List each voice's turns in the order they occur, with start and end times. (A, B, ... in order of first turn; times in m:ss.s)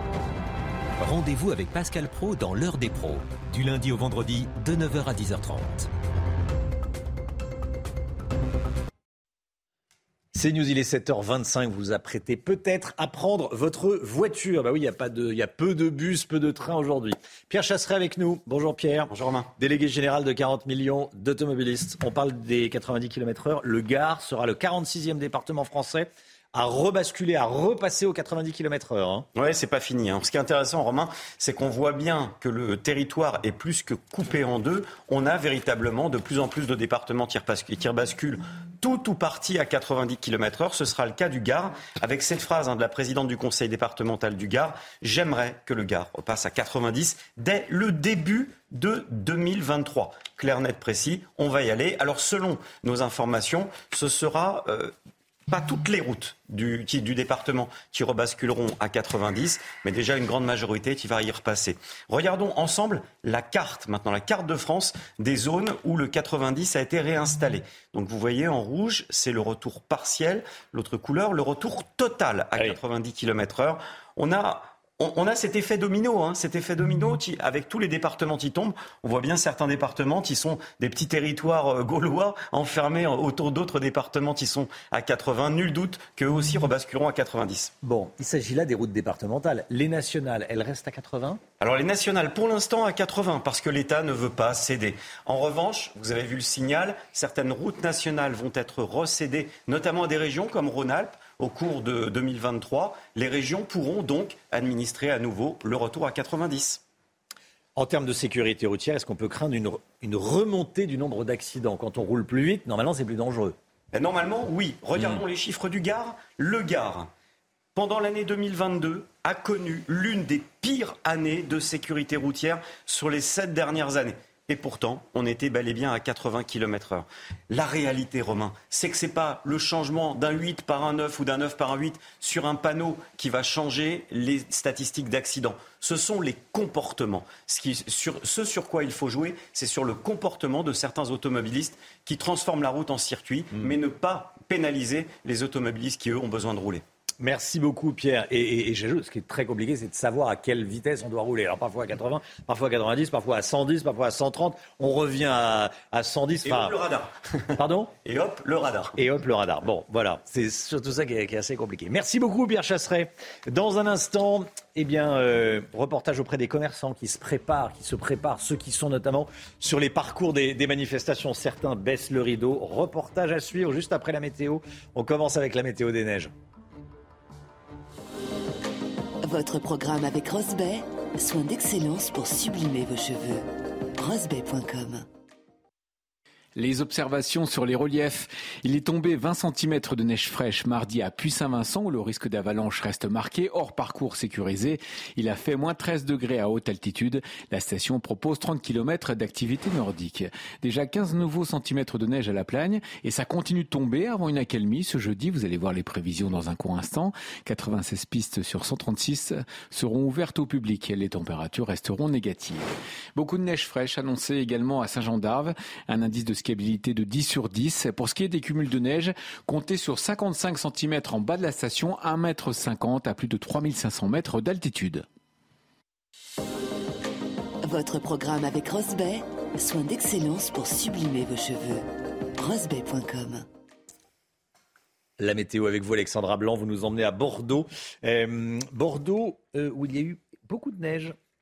0:01.0-0:05.9 A
0:10.3-0:29.3 B
0:19.1-0:19.5 C
0:29.3-0:54.9 C
0:55.5-1:27.7 C
1:27.8-1:31.4 B
1:31.6-1:46.8 C
1:47.8-1:53.6 B
1:53.9-1:57.1 C
1:57.7-2:26.8 C
2:27.2-2:36.8 B
2:36.4-2:37.1 C
2:37.6-2:38.0 B
2:38.0-2:39.0 C
2:38.9-2:56.3 B
2:59.2-3:03.4 D
3:04.0-3:05.0 D
3:06.6-3:45.0 E
3:47.6-3:51.8 D
3:52.4-3:53.4 D
3:55.2-4:01.2 B